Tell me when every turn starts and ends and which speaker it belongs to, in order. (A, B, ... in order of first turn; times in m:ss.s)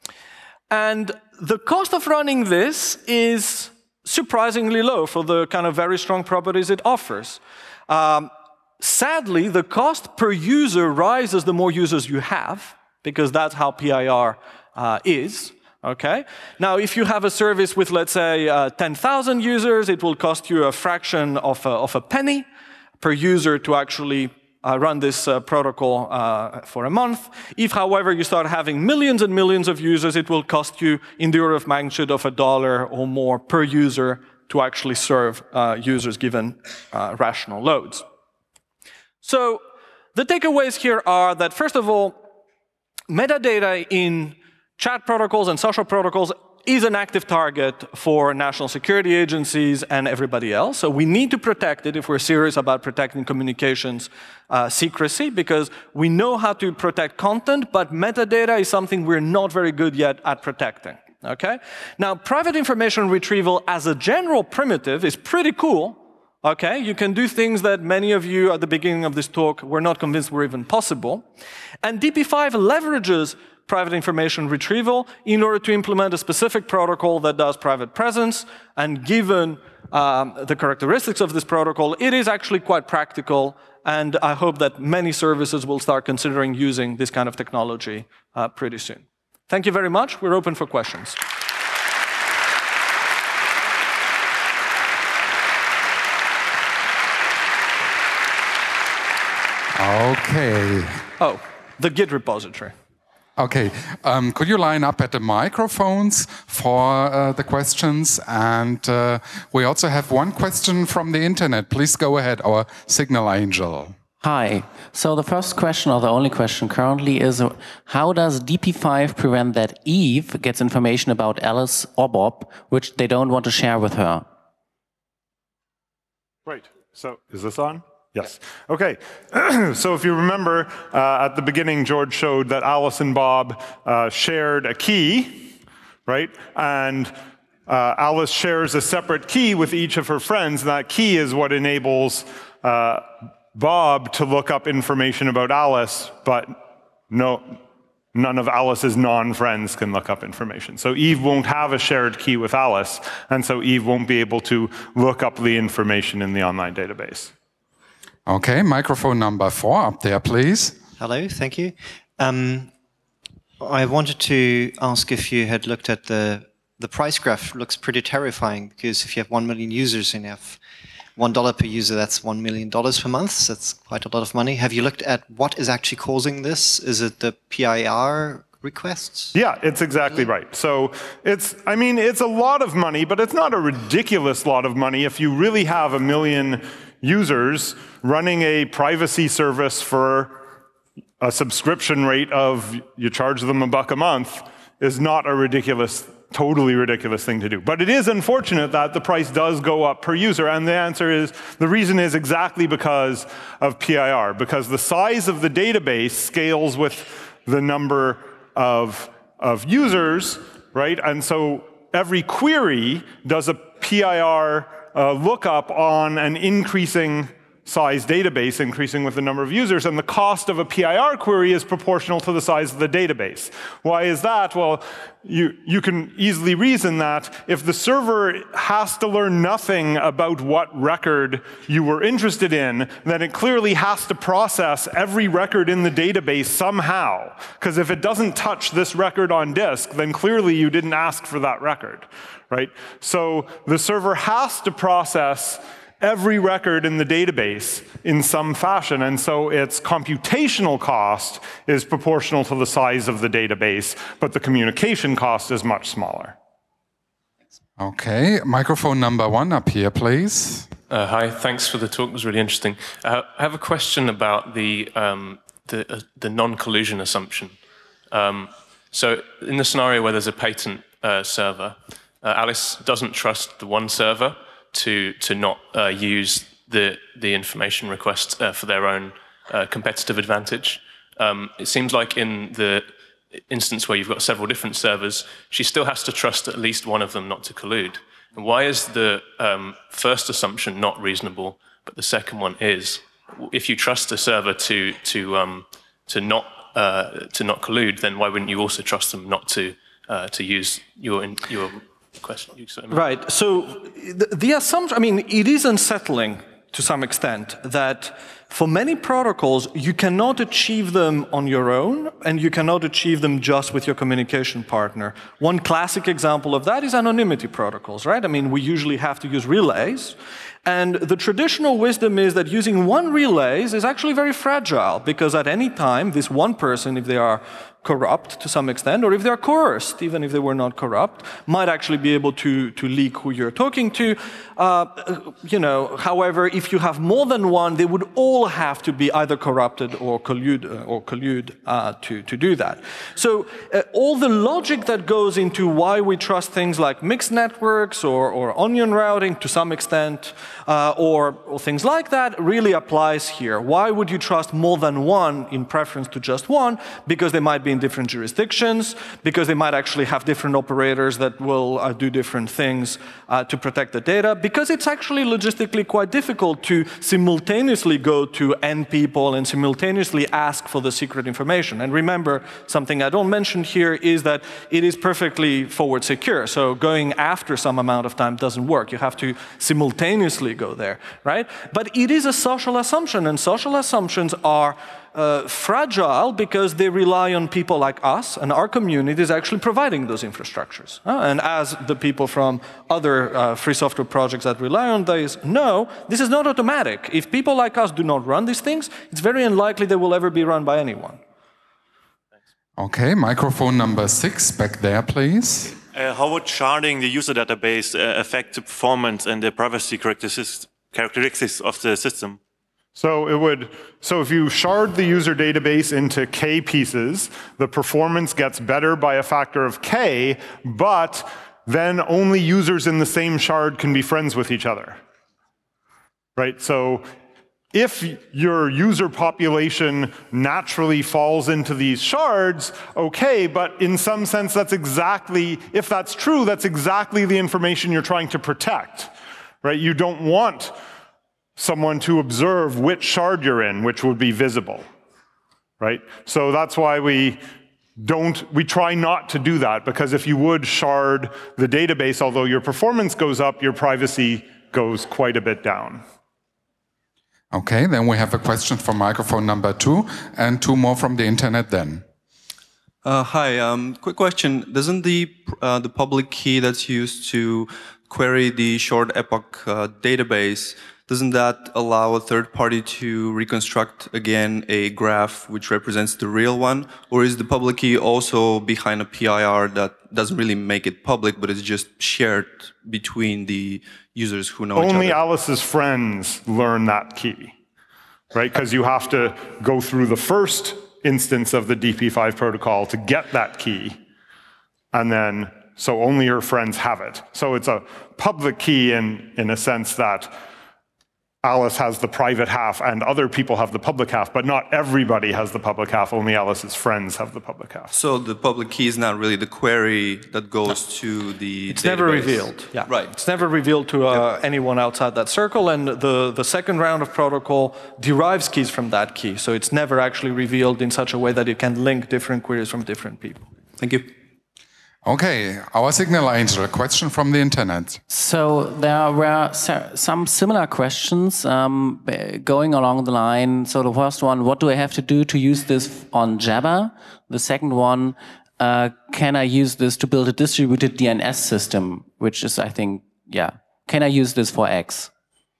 0:00.7-0:22.4 A
0:23.0-0:38.0 A
0:39.2-0:39.6 A
0:40.1-0:42.2 A
0:43.1-1:11.2 A
1:11.8-1:31.2 A
1:39.7-1:41.0 B
1:41.2-1:42.7 A
1:43.4-1:54.0 B
1:54.2-2:04.2 C
2:06.4-2:15.5 D
2:16.1-2:17.1 D
2:17.7-2:27.6 D
2:28.1-2:37.3 D
2:38.2-2:40.8 B
2:41.0-2:42.7 E
2:43.6-2:50.6 E
2:51.2-2:59.3 E
2:59.3-3:10.4 D
3:11.2-4:16.4 D
4:17.8-4:20.7 B
4:20.9-4:27.5 F
4:28.1-4:42.9 F
4:43.5-5:03.0 F
5:02.9-6:41.2 A
6:42.8-6:45.8 B
6:45.9-6:52.4 G
6:53.0-7:05.0 D
7:06.4-7:07.1 D
7:07.7-7:19.1 D
7:19.6-7:20.8 D
7:21.6-7:24.8 D
7:25.8-7:27.4 D
7:28.0-7:36.0 D
7:37.5-7:42.0 B
7:43.0-8:05.2 H
8:04.7-8:07.5 D
8:08.3-8:14.0 D
8:14.9-8:20.3 D
8:21.4-8:27.9 D
8:27.9-8:33.2 H
8:31.7-8:43.5 A
8:34.1-8:34.3 H
8:43.8-8:44.1 H
8:45.0-8:48.0 B
8:48.1-9:05.1 C